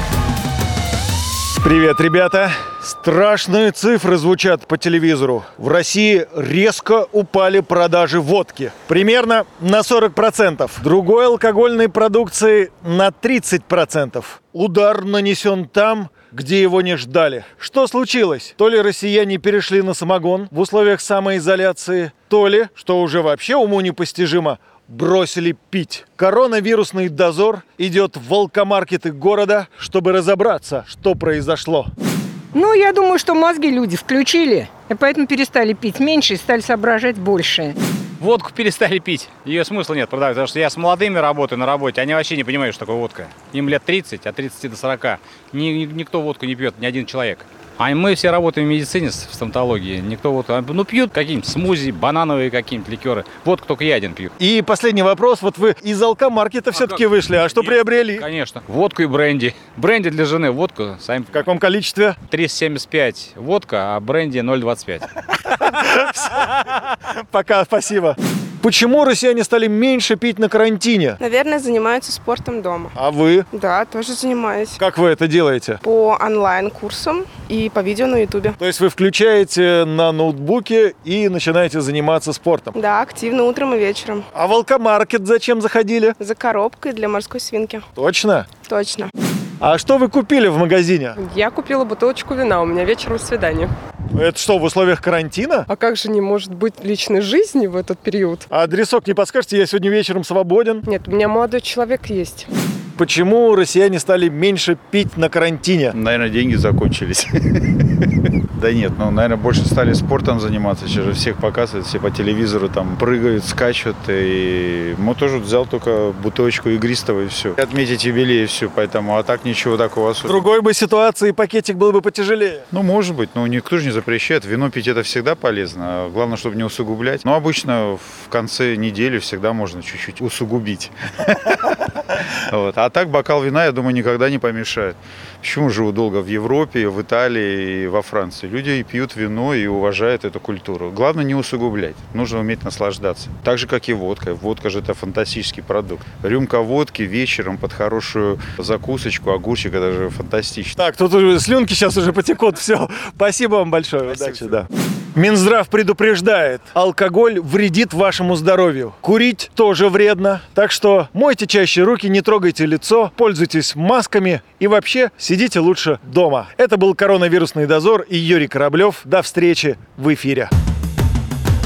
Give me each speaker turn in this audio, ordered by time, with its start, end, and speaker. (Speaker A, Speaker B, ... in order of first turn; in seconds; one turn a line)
Speaker A: 1.6-31.9
Speaker B: 32.5-37.8
Speaker C: 38.2-54.3
Speaker A: 54.4-58.2
Speaker C: 56.7-61.5
Speaker A: 61.3-62.2
Speaker C: 62.3-65.1
Speaker A: 65.6-66.3
Speaker A: 67.1-71.2
Speaker D: 71.2-72.9
Speaker A: 72.9-73.5
Speaker D: 73.5-74.8
Speaker A: 74.8-75.8
Speaker D: 75.8-78.5
Speaker A: 78.6-82.7
Speaker D: 82.7-84.2
Speaker A: 84.3-86.2
Speaker D: 86.2-87.8
Speaker A: 88.0-88.5
Speaker D: 88.7-89.1
Speaker A: 89.6-91.2
Speaker E: 91.2-93.7
Speaker A: 94.1-95.7
Speaker E: 95.7-98.4
Speaker A: 98.5-100.8
Speaker E: 100.9-102.5
Speaker A: 103.0-106.0
Speaker F: 105.9-120.5
Speaker A: 120.2-122.7
Speaker F: 122.7-131.7
Speaker F: 132.5-150.8
Speaker A: 150.8-170.5